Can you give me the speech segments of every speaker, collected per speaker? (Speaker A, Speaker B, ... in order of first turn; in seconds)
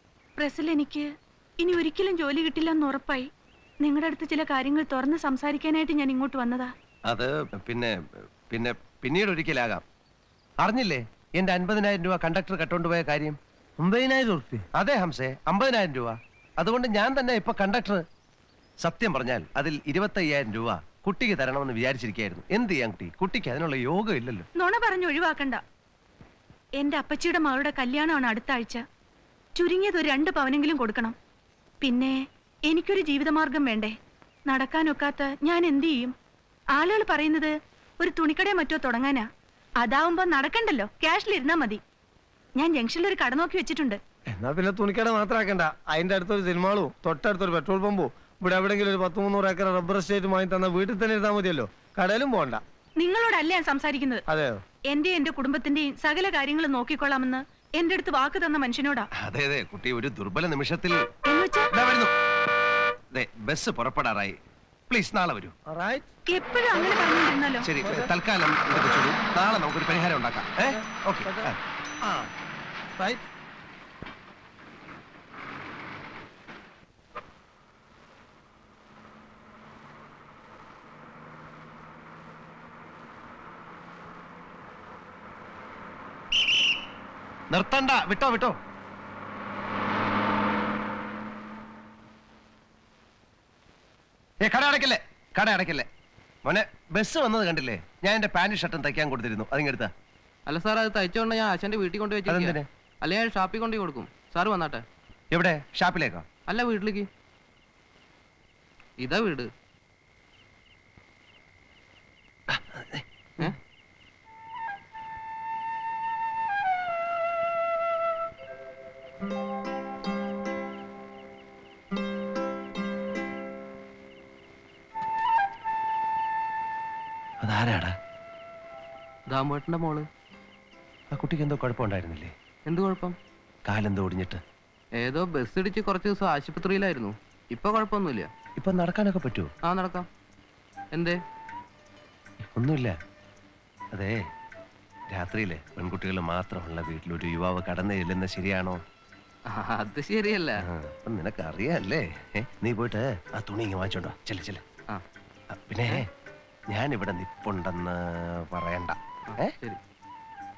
Speaker A: 0.4-1.1, 1.6-3.3, 3.8-6.7, 24.6-25.6, 26.8-28.8, 29.6-31.1, 31.8-32.2, 32.7-33.9, 34.5-36.1, 36.7-39.3, 39.8-41.8, 42.6-44.0, 53.0-54.2, 54.9-59.1, 61.3-61.7, 66.3-67.7
Speaker B: 7.1-7.9, 8.5-9.8, 10.6-13.4, 14.7-18.0, 18.8-24.5, 59.2-61.0, 61.7-62.1, 63.1-64.4, 64.9-65.5, 67.6-71.6, 87.5-88.6, 94.4-95.9, 96.5-99.9, 102.2-102.7, 105.3-106.2, 112.5-113.0, 127.4-127.9, 131.1-132.3, 133.7-134.4, 138.6-139.5, 142.6-143.0, 143.9-144.2, 145.1-148.8, 150.6-154.6, 155.5-156.1, 156.7-159.6
Speaker C: 13.8-14.6, 44.3-52.6, 54.3-54.6, 65.7-66.1, 67.8-68.1, 71.3-72.3, 73.0-73.2
Speaker D: 100.5-104.8, 106.5-107.1, 109.0-109.5, 129.3-130.1, 132.7-133.2, 135.0-138.3, 139.7-140.1, 140.9-141.2, 149.5-150.5, 159.3-159.8